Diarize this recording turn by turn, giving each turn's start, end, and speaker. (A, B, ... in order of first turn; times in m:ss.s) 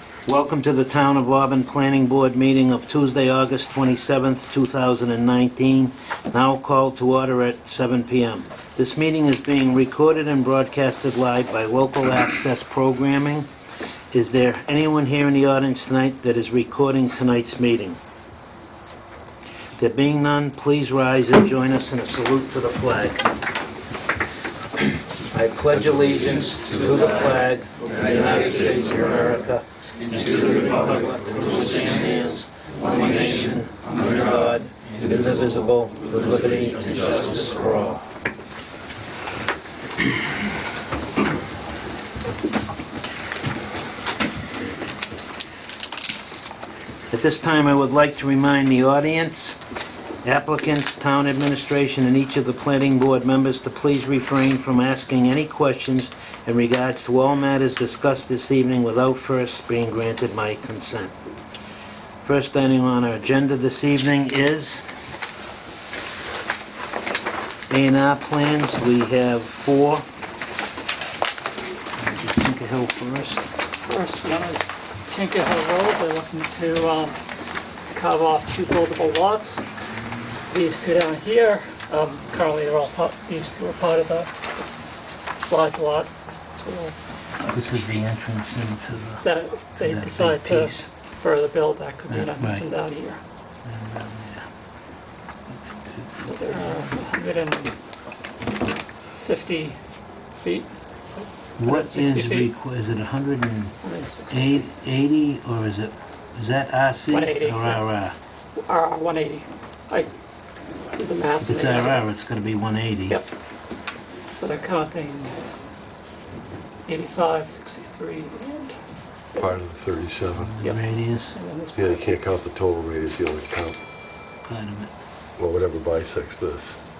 0:00.3-0:13.5 A
0:14.1-0:18.0 A
0:19.8-0:23.3 A
0:25.3-0:38.0 A
0:47.1-0:49.6 A
0:50.2-1:01.1 A
1:02.2-1:04.8 A
1:07.7-1:10.0 A
1:12.0-1:13.4 A
1:13.9-1:17.2 B
1:17.9-1:19.6 B
1:20.5-1:24.3 B
1:25.5-1:27.0 B
1:27.5-1:29.2 A
1:29.2-1:33.2 B
1:29.8-1:30.9 A
1:32.1-1:32.6 A
1:33.6-1:34.4 A
1:35.6-1:36.1 A
1:36.1-1:37.7 B
1:39.2-1:39.8 B
1:40.4-1:42.5 B
1:41.6-1:43.7 A
1:43.8-1:44.6 B
1:44.3-1:48.2 A
1:47.1-1:47.8 B
1:48.6-1:50.1 B
1:50.9-1:52.0 B
1:51.4-1:53.2 A
1:54.3-1:55.4 B
1:56.9-1:58.7 B
1:59.4-2:00.5 C
2:00.4-2:01.4 A
2:00.6-2:02.0 B
2:01.8-2:03.8 C
2:04.4-2:04.9 A
2:05.4-2:06.8 C